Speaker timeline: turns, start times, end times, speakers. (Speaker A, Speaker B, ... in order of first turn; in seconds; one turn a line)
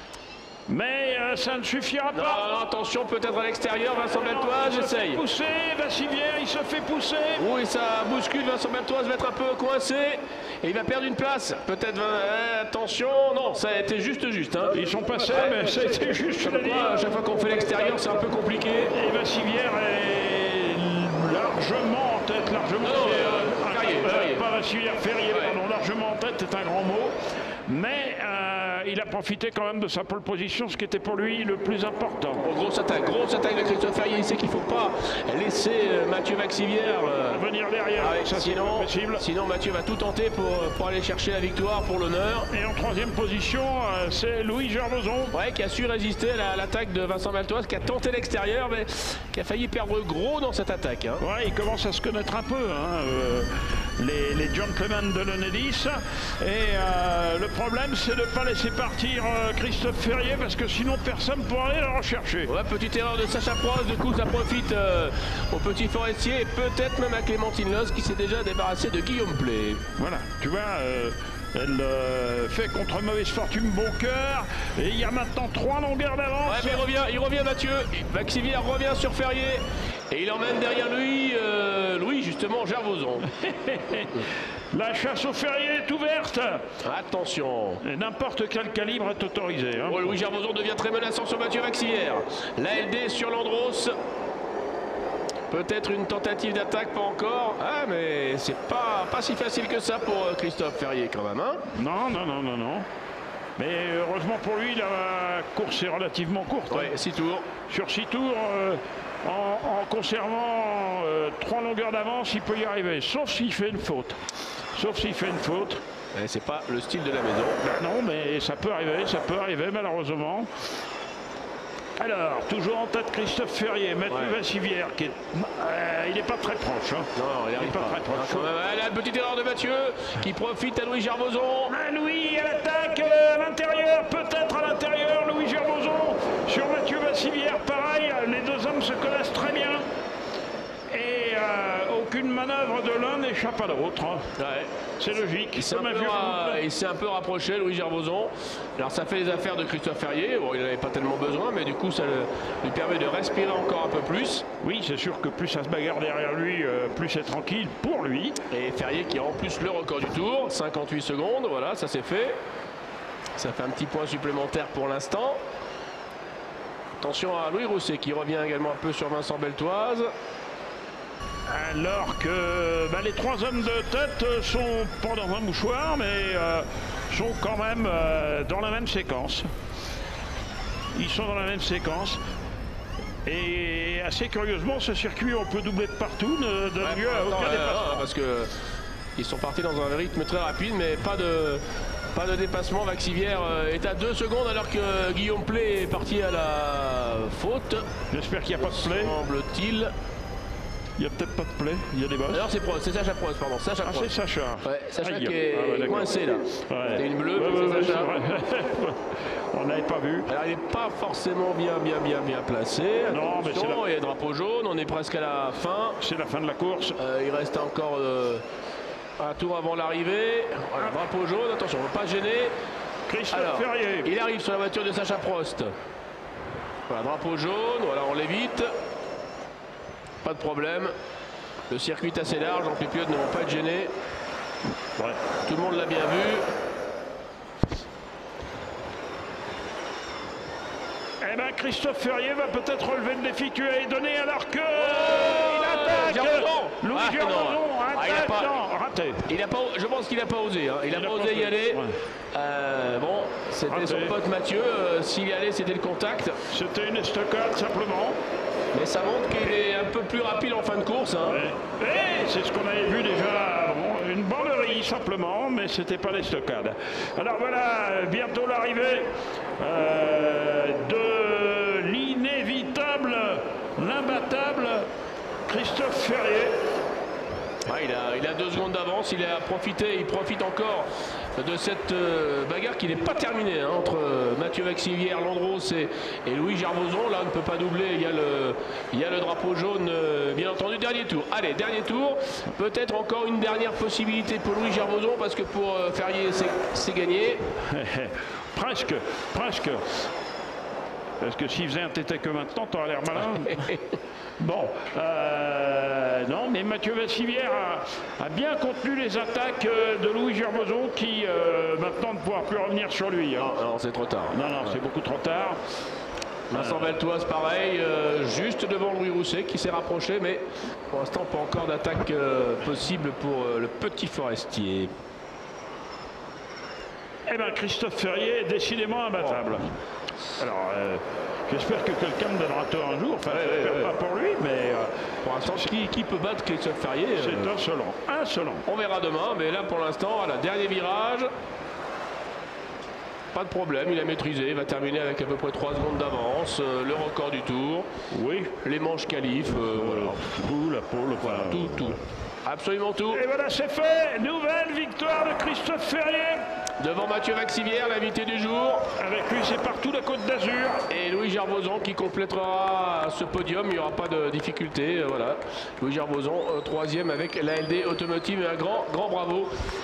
Speaker A: 0.7-2.4
Speaker B: 2.1-5.2
Speaker A: 4.1-7.4
Speaker B: 7.4-14.8
Speaker A: 14.7-16.9
Speaker B: 16.4-18.9
Speaker A: 18.9-27.1
Speaker B: 22.8-24.4
Speaker B: 25.3-25.6
Speaker A: 27.7-32.4
Speaker B: 32.4-37.4
Speaker A: 37.3-39.2
Speaker B: 38.0-42.5
Speaker A: 42.5-45.3
Speaker B: 45.3-51.2
Speaker A: 51.2-62.5
Speaker B: 62.5-69.8
Speaker A: 70.0-76.8
Speaker B: 76.5-83.3
Speaker A: 83.3-86.6
Speaker B: 86.8-87.8
Speaker A: 87.8-90.1
Speaker B: 89.9-93.9
Speaker B: 95.5-101.7
Speaker A: 101.7-102.9
Speaker A: 103.6-106.9
Speaker B: 106.7-107.5
Speaker A: 107.7-114.2
Speaker A: 114.7-115.8
Speaker B: 116.1-117.6
Speaker A: 117.6-120.5
Speaker A: 122.0-128.5
Speaker B: 124.1-124.4
Speaker B: 127.1-131.7
Speaker A: 131.7-139.9
Speaker A: 140.9-144.3
Speaker B: 144.4-144.7
Speaker A: 145.0-146.6
Speaker B: 145.6-154.4
Speaker A: 154.6-158.4
Speaker B: 158.5-162.4
Speaker B: 163.4-165.4
Speaker B: 167.0-170.1
Speaker A: 171.5-179.5
Speaker A: 180.9-182.2
Speaker A: 183.2-188.1
Speaker B: 186.8-188.6
Speaker B: 189.2-191.6
Speaker B: 192.1-197.9
Speaker A: 198.1-199.2
Speaker B: 198.6-199.9
Speaker A: 201.0-202.5
Speaker B: 202.3-204.1
Speaker A: 203.8-210.3
Speaker B: 204.6-208.1
Speaker B: 210.3-216.0
Speaker A: 213.1-213.8
Speaker A: 216.0-216.9
Speaker B: 217.0-218.4
Speaker B: 219.2-222.6
Speaker A: 223.1-224.1
Speaker B: 223.3-225.7
Speaker B: 226.9-228.7
Speaker B: 230.2-230.9
Speaker B: 231.7-233.9
Speaker B: 235.4-236.4
Speaker A: 241.2-249.2
Speaker B: 244.7-248.6
Speaker B: 249.3-256.4
Speaker A: 250.9-252.0
Speaker A: 253.7-254.1
Speaker A: 256.5-258.2
Speaker B: 258.7-261.4
Speaker A: 261.2-274.9
Speaker A: 275.5-276.6
Speaker B: 277.6-297.4
Speaker A: 297.6-299.8
Speaker A: 301.2-303.7
Speaker B: 303.4-303.8
Speaker A: 304.4-313.5
Speaker B: 313.4-314.8
Speaker A: 314.3-315.6
Speaker B: 316.5-324.9
Speaker A: 316.5-316.9
Speaker A: 327.3-329.7
Speaker A: 330.4-335.7
Speaker B: 333.2-333.9
Speaker B: 335.2-337.5
Speaker A: 337.1-338.6
Speaker B: 338.6-341.3
Speaker B: 343.3-347.9
Speaker A: 348.1-348.6
Speaker B: 348.6-350.2
Speaker A: 349.5-351.9
Speaker B: 351.2-353.2
Speaker A: 353.1-356.4
Speaker B: 356.8-358.9
Speaker A: 358.9-360.8
Speaker B: 360.9-369.5